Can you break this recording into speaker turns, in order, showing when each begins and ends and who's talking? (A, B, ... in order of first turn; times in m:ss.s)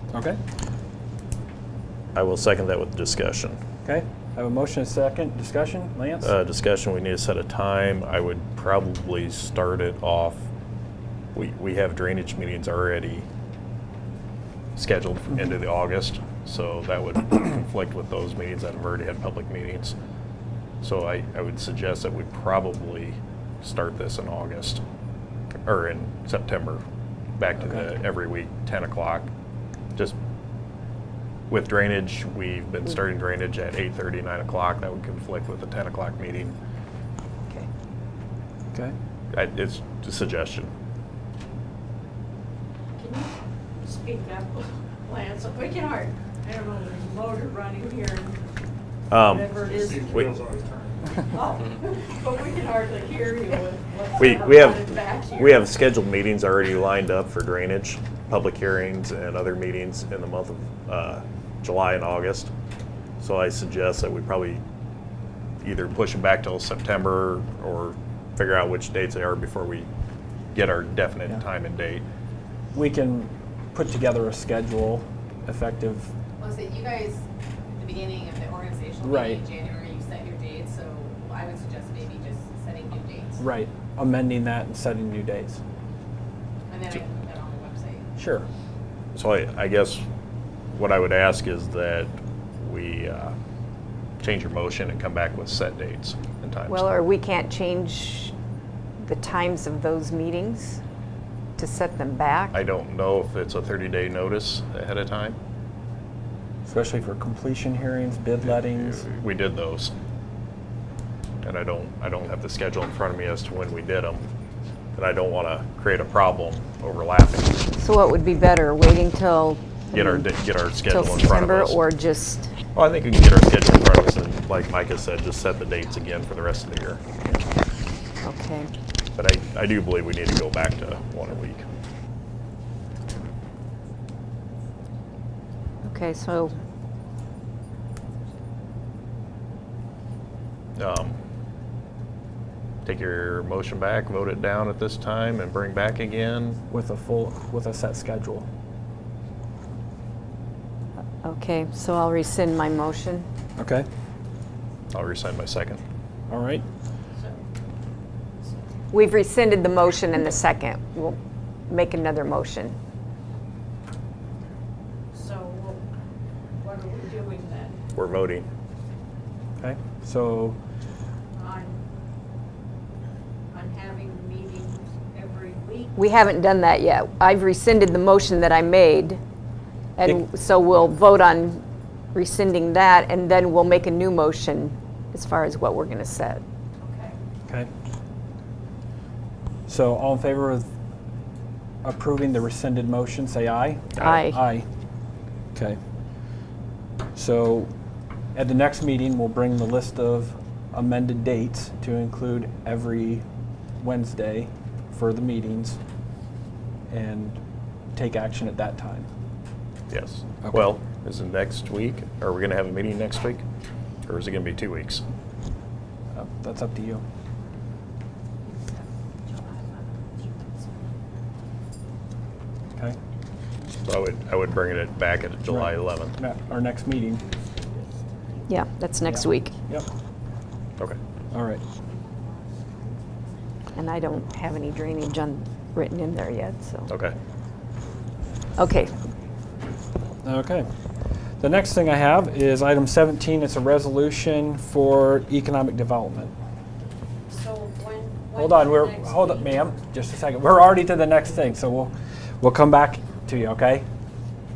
0:00.1-0:00.4 A
0:02.1-0:03.6 B
0:03.8-0:06.3 A
0:06.2-0:10.4 B
0:11.3-0:13.2 B
0:14.8-0:19.9 B
0:20.8-0:24.8 B
0:25.6-0:26.8 B
0:27.4-0:29.3 B
0:27.6-0:27.8 A
0:31.5-0:36.6 B
0:39.3-0:40.7 B
0:43.0-0:48.4 C
0:49.1-0:49.5 B
0:49.2-0:50.6 C
0:50.1-0:50.4 B
0:51.2-0:55.7 C
0:54.2-1:02.5 B
1:03.2-1:04.6 B
1:05.6-1:09.9 B
1:10.5-1:12.0 B
1:12.7-1:16.1 A
1:16.4-1:23.4 D
1:19.0-1:19.4 A
1:23.4-1:25.6 A
1:26.7-1:28.0 D
1:28.2-1:28.5 A
1:29.1-1:30.0 B
1:30.7-1:33.3 B
1:34.2-1:36.9 B
1:36.7-1:38.3 E
1:39.0-1:40.8 E
1:41.6-1:42.6 E
1:42.5-1:45.4 B
1:46.6-1:49.0 A
1:48.8-1:49.9 B
1:51.4-1:54.2 B
1:54.9-1:57.6 B
1:57.8-2:00.3 E
1:59.9-2:01.8 B
2:00.8-2:02.5 E
2:02.7-2:07.0 B
2:08.2-2:08.7 E
2:09.2-2:11.6 B
2:15.8-2:16.6 E
2:20.8-2:21.2 B
2:22.8-2:26.6 B
2:26.7-2:28.4 A
2:31.2-2:33.2 E
2:33.6-2:33.9 A
2:34.9-2:35.8 B
2:36.3-2:36.6 A
2:37.1-2:37.4 C
2:38.9-2:41.2 E
2:41.7-2:42.8 E
2:45.1-2:45.8 C
2:46.6-2:47.8 C
2:47.9-2:48.4 B
2:49.6-2:50.6 A
2:51.4-2:51.8 C
2:53.5-2:55.9 C
2:56.0-2:59.2 E
3:00.0-3:06.4 E
3:06.8-3:07.2 C
3:09.7-3:10.6 A
3:11.8-3:14.7 A
3:14.0-3:14.4 E
3:17.1-3:17.7 A
3:18.3-3:23.2 A
3:23.8-3:25.8 A
3:26.9-3:27.4 A
3:27.9-3:29.1 A
3:29.9-3:33.4 B
3:34.0-3:35.0 B
3:36.1-3:37.0 A
3:38.5-3:40.9 C
3:43.8-3:46.2 B
3:45.5-3:47.2 A
3:48.5-3:49.5 E
3:49.1-3:49.9 A
3:51.3-3:51.6 A
3:53.7-3:56.9 E
3:56.9-3:57.2 B
3:58.6-3:58.9 E
4:00.2-4:00.7 A
4:01.4-4:06.3 A
4:07.3-4:09.8 C
4:08.3-4:13.8 A